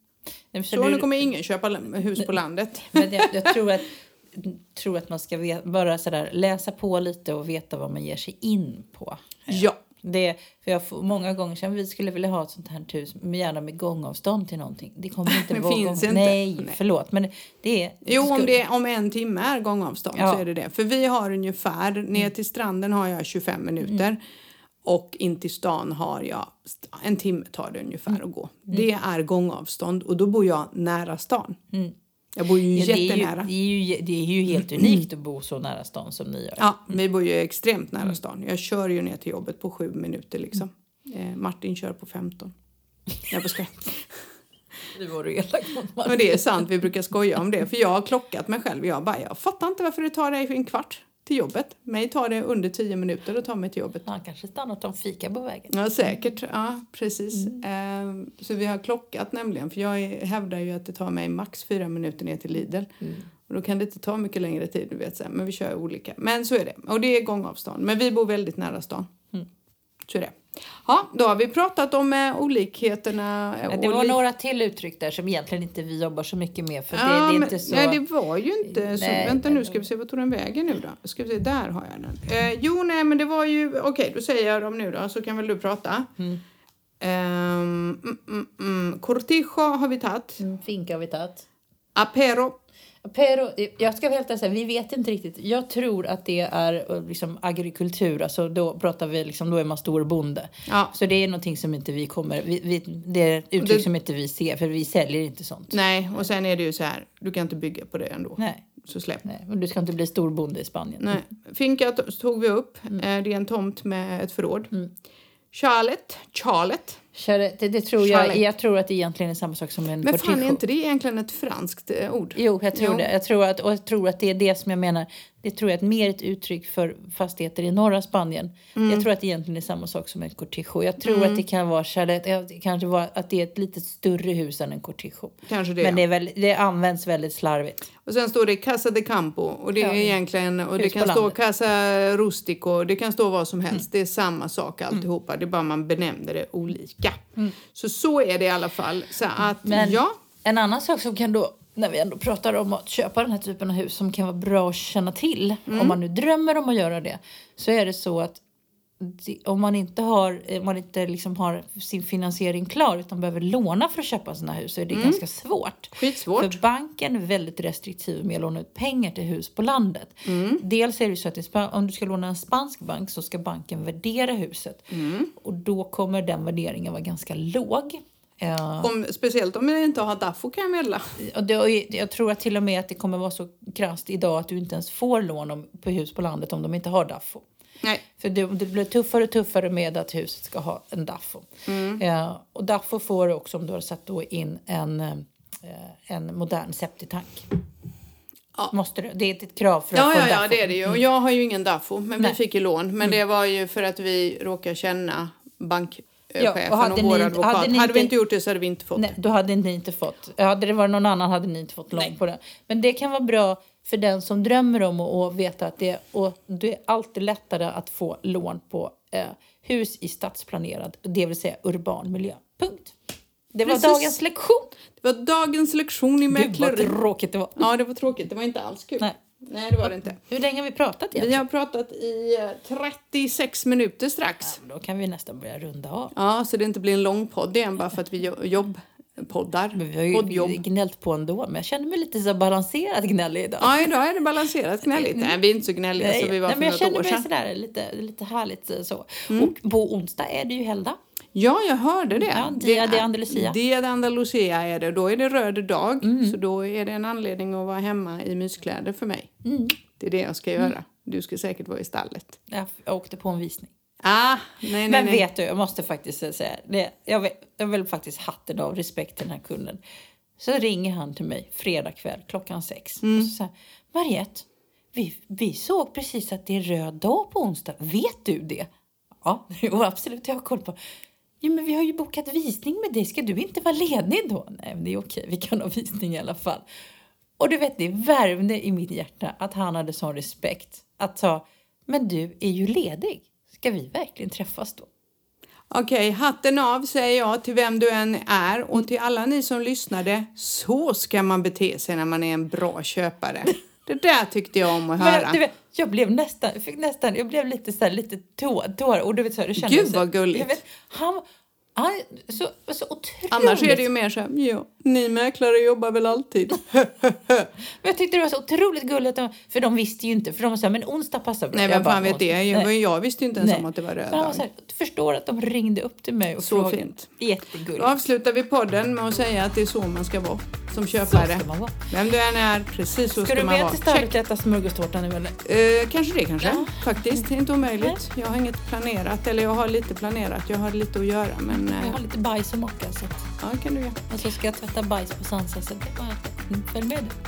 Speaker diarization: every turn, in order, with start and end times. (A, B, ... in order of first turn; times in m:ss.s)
0:00.5-0:01.2 A
0:00.7-0:03.6 B
0:02.8-0:18.6 A
0:09.5-0:09.8 B
0:15.3-0:16.8 B
0:18.0-0:24.2 B
0:20.1-0:20.4 A
0:24.8-0:31.6 B
0:32.3-0:33.5 B
0:32.7-0:36.7 A
0:34.5-0:35.0 B
0:36.6-0:42.5 B
0:43.3-0:44.1 B
0:44.9-0:46.6 A
0:46.0-0:54.0 B
0:54.0-0:56.2 A
0:55.7-1:02.9 B
1:03.5-1:09.1 B
1:10.0-1:14.2 B
1:13.7-1:18.0 A
1:16.9-1:26.1 B
1:18.6-1:19.8 A
1:27.0-1:30.4 B
1:30.4-1:31.4 A
1:31.9-1:32.6 B
1:33.0-1:45.8 A
1:40.7-1:40.9 B
1:43.6-1:43.8 B
1:45.7-1:49.2 B
1:48.4-1:48.6 A
1:49.2-1:51.3 A
1:51.0-1:54.7 B
1:55.5-1:57.0 B
1:57.1-2:00.6 A
1:58.0-1:58.4 B
2:00.0-2:03.1 B
2:02.4-2:17.9 A
2:08.7-2:09.0 B
2:11.0-2:11.4 B
2:15.5-2:16.0 B
2:18.0-2:30.1 B
2:19.8-2:20.1 A
2:20.8-2:21.4 A
2:29.6-2:38.4 A
2:35.7-2:36.0 B
2:39.0-2:58.9 A
2:44.9-2:45.2 B
2:46.0-2:46.6 B
2:50.2-2:50.6 B
2:54.9-2:55.3 B
2:58.8-3:01.0 B
3:01.2-3:07.4 A
3:08.2-3:17.5 A
3:11.7-3:12.0 B
3:18.7-3:21.0 A
3:19.9-3:29.1 B
3:26.4-3:28.1 A
3:29.0-3:43.0 A
3:43.5-3:44.7 A
3:43.6-3:44.2 B
3:45.0-3:47.0 B
3:46.3-3:47.7 A
3:47.6-3:50.2 B
3:49.8-3:51.4 A
3:51.1-3:54.6 B
3:54.4-3:56.1 A
3:56.1-4:00.6 B
3:59.7-4:03.9 A
4:03.6-4:07.2 B
4:04.9-4:05.4 A
4:06.0-4:11.0 A
4:09.3-4:09.5 B
4:11.3-4:22.4 B
4:12.2-4:13.6 A
4:16.0-4:16.4 A
4:19.4-4:19.8 A
4:22.5-4:23.7 A
4:24.0-4:25.2 B
4:24.8-4:29.8 A
4:30.4-4:38.7 A
4:33.0-4:33.3 B
4:39.2-4:40.8 A
4:41.4-4:46.6 A
4:47.4-4:54.9 A
4:55.7-5:05.4 B
5:04.9-5:11.2 A
5:09.6-5:10.6 B
5:11.7-5:13.9 A
5:13.3-5:17.5 B
5:17.8-5:22.7 A
5:21.5-5:24.4 B
5:23.4-5:28.0 A
5:26.4-5:27.1 B
5:27.7-5:34.1 B
5:31.1-5:31.8 A
5:33.2-5:35.4 A
5:35.4-5:42.0 B
5:36.4-5:38.0 A
5:41.5-5:43.3 A
5:43.4-5:44.0 B
5:44.1-5:47.2 A